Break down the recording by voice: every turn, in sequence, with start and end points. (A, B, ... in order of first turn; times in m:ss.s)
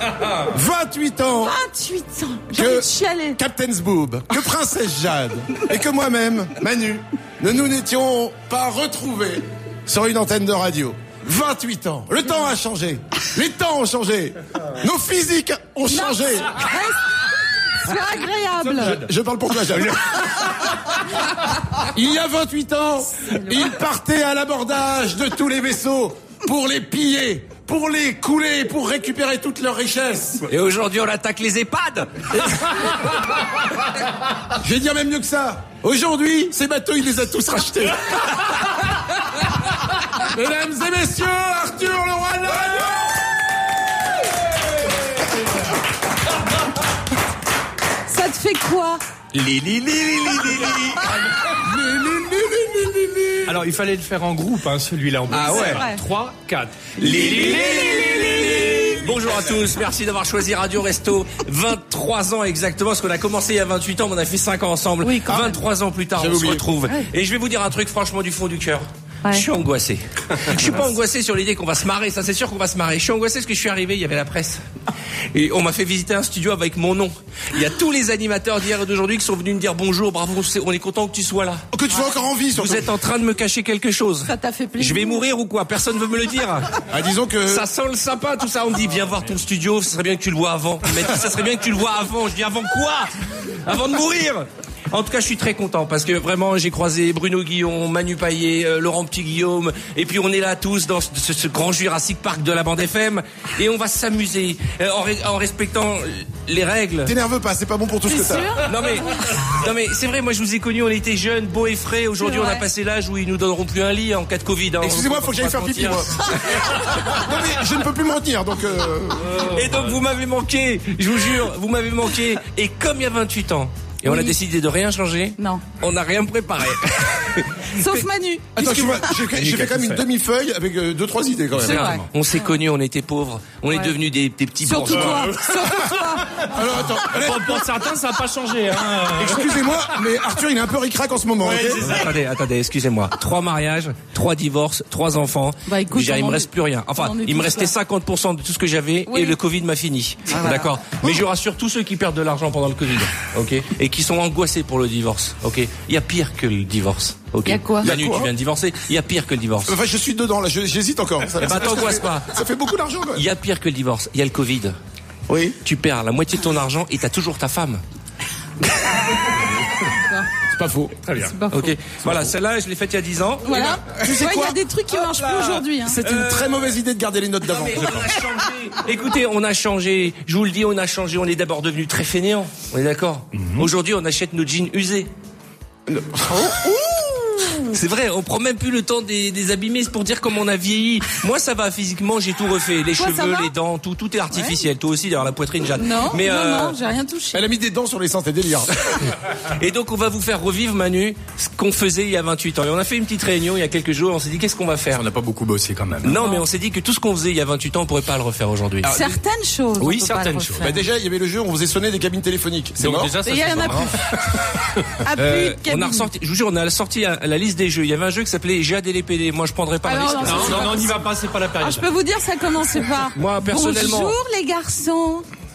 0:00.5-0:01.6 A
0:01.4-0:03.4 B
0:02.5-0:16.6 A
0:15.9-0:17.0 B
0:17.8-0:19.0 B
0:18.8-0:20.5 A
0:21.9-0:30.5 A
0:30.5-0:32.6 C
0:34.6-0:38.4 A
0:40.2-0:42.9 A
0:48.1-0:49.0 B
0:49.3-0:51.0 C
0:51.6-0:53.5 A
0:53.5-0:58.5 D
0:55.3-0:55.8 C
0:55.3-0:56.0 B
0:57.0-1:14.6 C
0:57.1-0:58.2 A
1:05.0-1:05.5 B
1:05.3-1:05.6 A
1:06.2-1:06.6 A
1:15.3-1:21.6 C
1:21.7-1:22.9 A
1:22.6-1:26.7 C
1:24.2-1:25.2 B
1:26.9-1:27.7 A
1:27.5-1:33.1 C
1:33.6-1:47.1 C
1:47.0-1:48.6 A
1:48.1-1:49.2 B
1:48.7-1:56.6 C
1:52.2-1:52.6 B
1:54.8-1:59.3 A
1:59.2-2:00.0 D
1:59.5-2:08.0 C
2:04.0-2:04.3 B
2:05.4-2:05.6 B
2:07.8-2:09.1 B
2:08.6-2:11.9 A
2:08.6-2:09.8 C
2:09.4-2:10.0 D
2:11.6-2:15.3 C
2:11.7-2:12.5 B
2:14.6-2:16.4 B
2:15.0-2:15.4 D
2:16.5-2:17.7 A
2:17.0-2:19.7 D
2:19.1-2:21.9 A
2:21.4-2:22.1 D
2:21.8-2:39.7 C
2:25.7-2:27.7 B
2:29.1-2:29.4 B
2:30.3-2:30.7 B
2:37.5-2:37.9 B
2:37.8-2:38.3 A
2:39.7-2:43.2 A
2:41.4-2:42.3 C
2:43.2-2:44.8 C
2:45.3-2:45.6 A
2:45.6-2:47.8 C
2:49.9-2:50.3 B
2:50.5-2:51.0 A
2:51.1-2:51.3 D
2:51.2-2:51.8 B
2:51.5-2:53.8 C
2:52.0-2:52.3 A
2:53.4-2:56.0 B
2:54.0-2:54.6 A
2:55.8-2:58.2 A
2:56.0-2:56.7 C
2:57.4-3:05.1 C
3:03.3-3:03.7 D
3:05.9-3:06.5 A
3:06.4-3:06.7 B
3:07.7-3:16.8 C
3:13.0-3:13.5 B
3:15.8-3:17.4 B
3:17.3-3:18.7 A
3:19.5-3:25.0 C
3:24.9-3:26.3 D
3:26.0-3:29.1 C
3:28.8-3:30.8 B
3:29.8-3:30.8 D
3:30.6-3:33.1 A
3:32.8-3:34.0 D
3:33.2-3:33.9 B
3:35.0-3:36.0 B
3:35.2-3:40.9 C
3:39.8-3:40.9 B
3:40.2-3:41.8 D
3:41.6-3:45.2 B
3:43.2-3:44.2 C